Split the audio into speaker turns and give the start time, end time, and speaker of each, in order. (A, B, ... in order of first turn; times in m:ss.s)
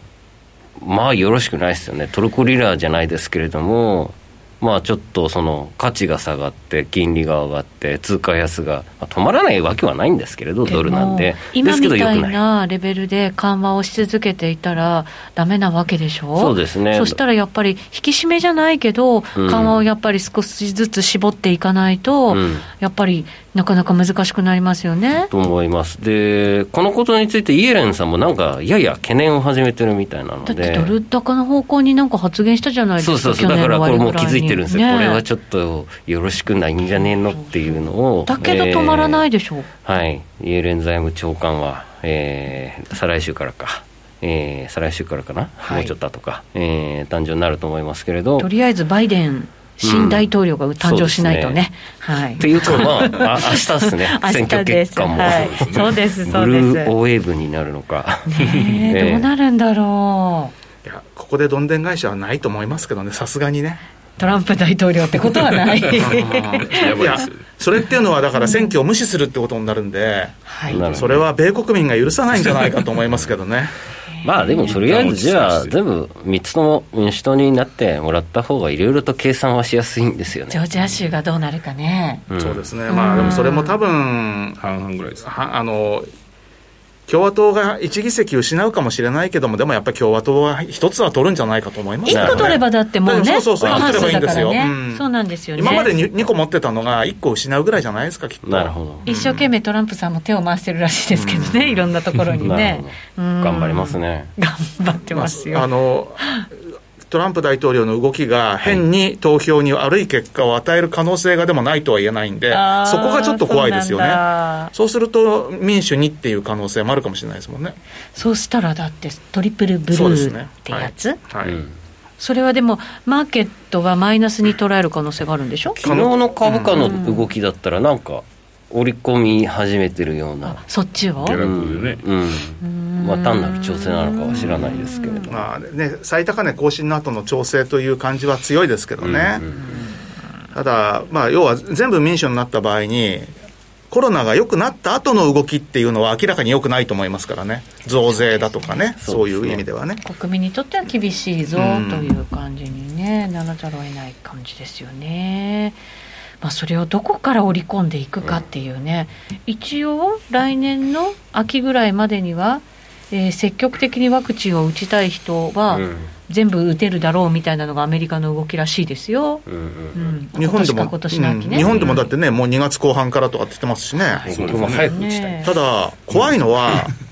0:00.8-0:12.4 A
0:10.7-0:25.3 B
0:16.4-0:17.2 A
0:19.4-0:19.8 A
0:22.3-0:22.7 A
0:25.3-0:30.9 A
0:30.5-0:35.2 B
0:33.0-0:39.3 A
0:37.0-0:39.7 B
0:39.8-0:48.5 A
0:45.7-0:45.9 B
0:48.4-0:56.9 B
0:49.8-0:50.3 A
0:50.8-0:51.6 A
0:52.4-0:59.3 A
0:55.2-0:55.9 C
0:58.3-1:00.5 B
1:00.8-1:03.8 D
1:04.2-1:07.0 B
1:06.0-1:10.4 D
1:06.7-1:07.5 C
1:08.4-1:08.7 B
1:10.5-1:10.8 B
1:10.7-1:11.3 A
1:10.9-1:13.7 D
1:14.2-1:14.8 B
1:14.2-1:20.6 A
1:14.6-1:15.8 C
1:20.5-1:22.2 B
1:22.3-1:22.6 A
1:22.4-1:24.6 D
1:22.9-1:23.8 B
1:24.6-1:25.2 C
1:25.2-1:26.1 D
1:27.1-1:35.0 D
1:32.0-1:35.9 B
1:32.1-1:32.6 A
1:33.6-1:34.5 A
1:35.6-1:39.4 D
1:38.4-1:39.1 A
1:39.1-1:45.7 B
1:41.2-1:41.8 D
1:42.4-1:44.3 A
1:45.1-1:46.2 D
1:46.2-1:46.5 B
1:47.1-1:54.2 D
1:52.5-1:54.7 B
1:54.7-1:57.8 D
1:58.2-2:01.2 B
1:59.9-2:01.6 D
2:01.4-2:01.7 A
2:02.2-2:05.8 B
2:05.8-2:10.6 A
2:05.8-2:07.0 D
2:06.8-2:07.3 B
2:10.4-2:11.4 B
2:11.2-2:12.0 C
2:11.4-2:15.3 A
2:12.6-2:15.4 B
2:14.4-2:14.7 D
2:15.3-2:19.4 D
2:19.0-2:19.8 A
2:20.5-2:23.3 D
2:23.9-2:30.0 D
2:28.1-2:28.8 B
2:29.0-2:29.6 A
2:30.0-2:35.8 B
2:31.6-2:32.2 D
2:36.4-2:52.0 B
2:45.7-2:46.1 A
2:49.5-2:50.0 A
2:50.3-2:54.2 D
2:51.6-2:52.0 A
2:54.0-2:54.3 B
2:54.3-2:55.5 A
2:54.3-2:54.9 C
2:54.8-2:55.6 B
2:55.4-2:56.9 D